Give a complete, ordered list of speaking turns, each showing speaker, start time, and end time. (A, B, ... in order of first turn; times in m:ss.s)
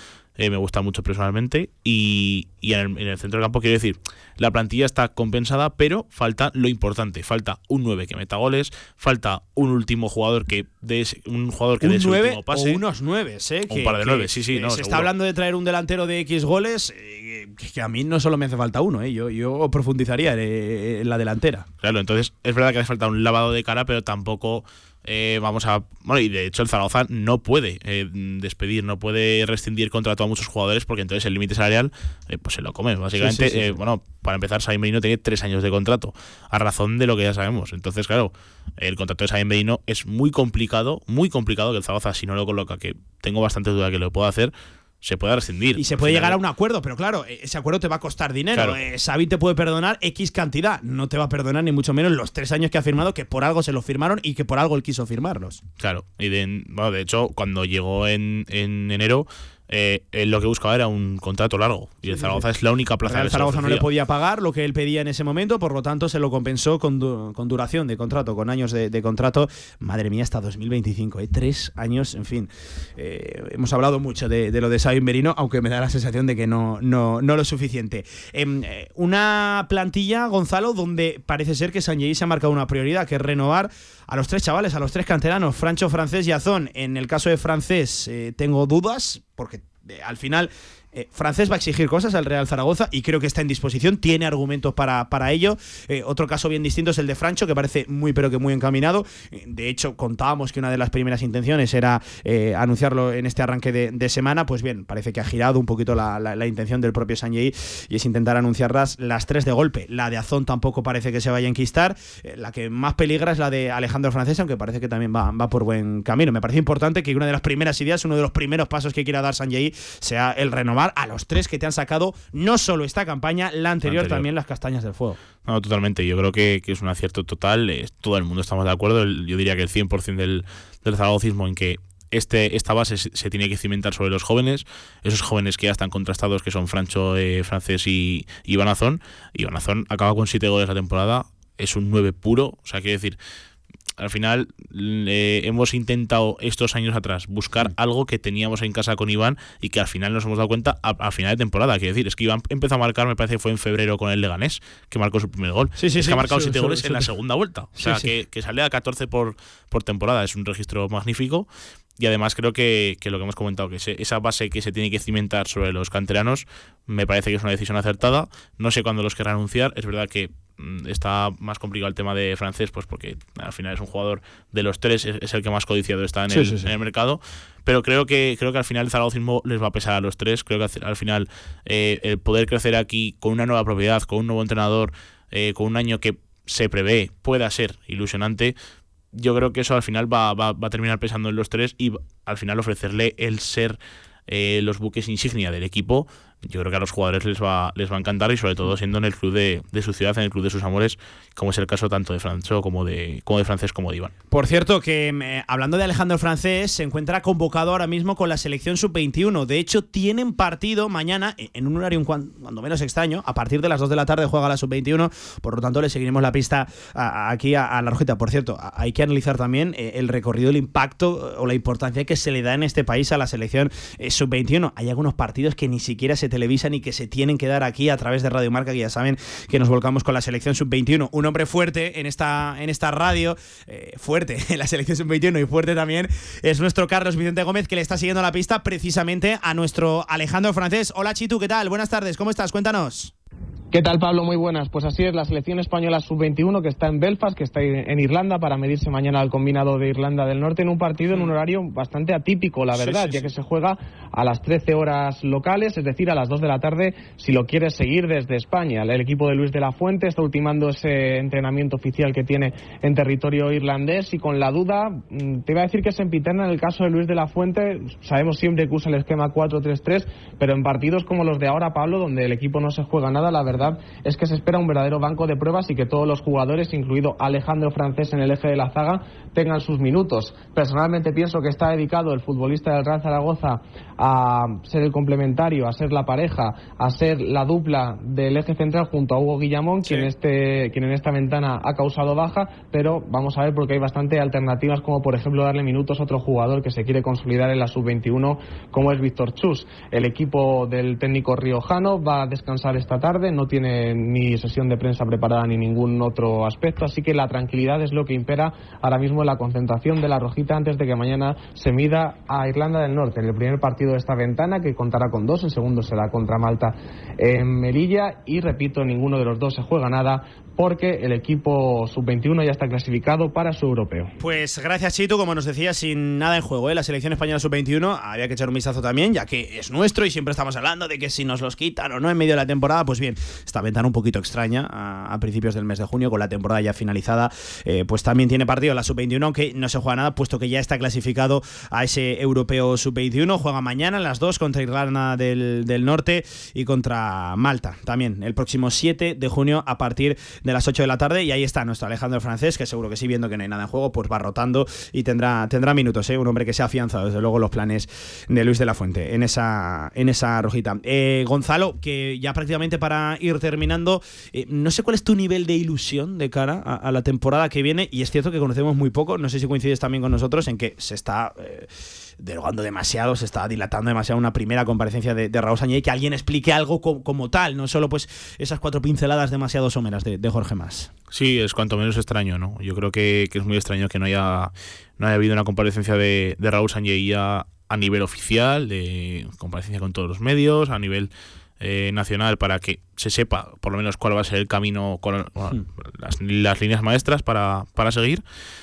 0:00.4-0:12.8 A
0:11.8-0:21.7 B
0:13.7-0:15.1 A
0:21.8-0:46.4 A
0:33.2-0:33.8 B
0:45.8-0:55.6 B
0:55.8-1:03.9 A
1:02.1-1:02.4 B
1:03.1-2:05.2 B
2:03.8-2:04.3 A
2:05.4-2:23.2 A
2:24.0-2:41.5 A
2:35.8-2:37.1 B
2:37.8-2:38.1 B
2:42.0-3:08.6 A
2:56.3-2:56.7 B
3:09.1-3:24.1 A
3:24.3-4:03.1 B
4:03.7-5:24.1 C
4:12.8-4:13.1 A
4:12.8-4:13.3 B
5:24.2-6:20.9 B
6:21.1-6:38.2 A